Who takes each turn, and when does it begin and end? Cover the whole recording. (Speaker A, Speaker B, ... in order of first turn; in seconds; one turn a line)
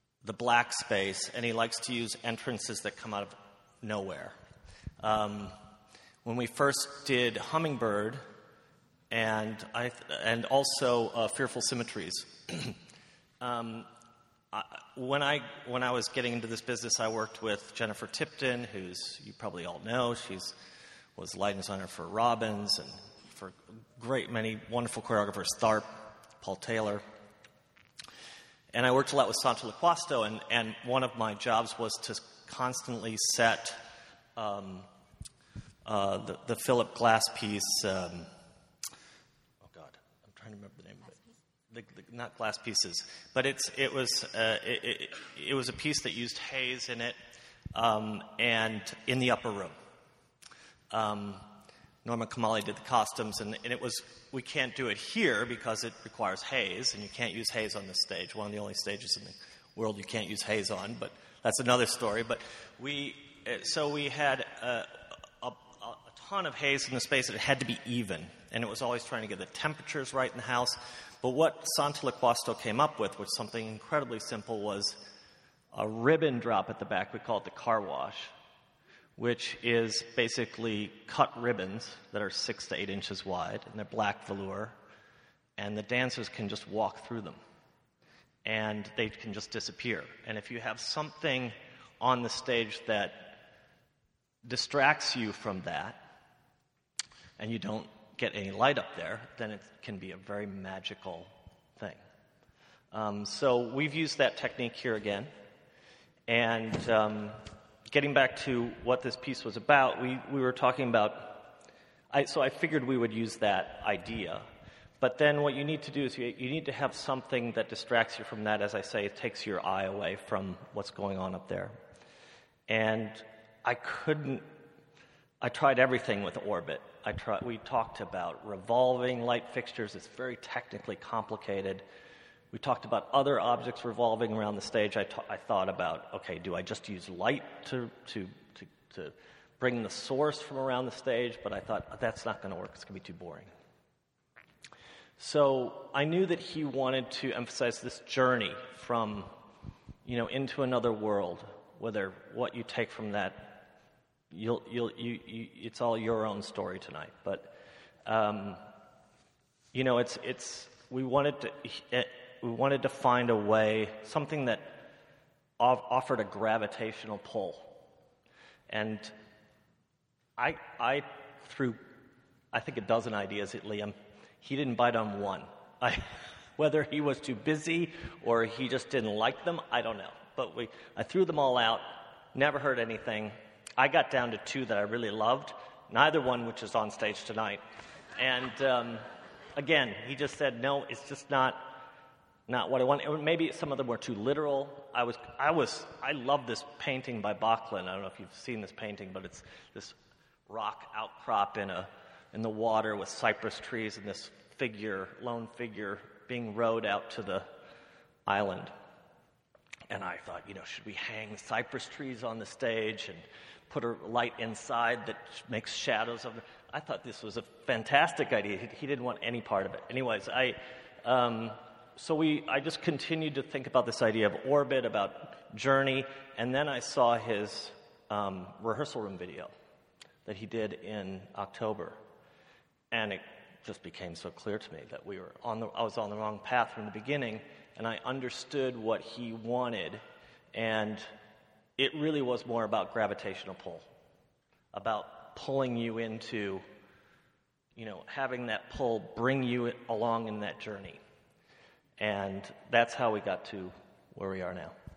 Speaker A: 0.2-4.3
Speaker A: 5.0-5.6
Speaker A: 6.2-8.2
Speaker A: 9.1-12.8
Speaker A: 13.4-13.9
Speaker A: 14.5-20.6
Speaker A: 21.2-27.0
Speaker A: 28.7-34.9
Speaker A: 35.9-38.3
Speaker A: 39.6-47.2
Speaker A: 47.7-49.8
Speaker A: 50.9-51.5
Speaker A: 52.0-75.0
Speaker A: 75.7-78.3
Speaker A: 79.2-84.8
Speaker A: 85.6-87.4
Speaker A: 88.5-93.4
Speaker A: 94.4-96.0
Speaker A: 97.4-102.0
Speaker A: 102.9-105.3
Speaker A: 106.3-111.5
Speaker A: 112.1-114.5
Speaker A: 115.0-121.7
Speaker A: 122.7-124.5
Speaker A: 125.4-131.8
Speaker A: 132.5-143.5
Speaker A: 145.2-149.3
Speaker A: 150.1-153.7
Speaker A: 154.3-158.6
Speaker A: 159.7-164.8
Speaker A: 165.6-167.7
Speaker A: 168.7-169.1
Speaker A: 170.4-171.8
Speaker A: 172.5-187.6
Speaker A: 188.2-189.0
Speaker A: 189.6-191.8
Speaker A: 192.5-200.0
Speaker A: 200.5-207.5
Speaker A: 208.3-208.7
Speaker A: 209.9-229.5
Speaker A: 230.2-232.0
Speaker A: 232.9-240.0
Speaker A: 240.5-241.1
Speaker A: 241.8-243.9
Speaker A: 244.7-246.6
Speaker A: 247.8-251.0
Speaker A: 252.0-254.8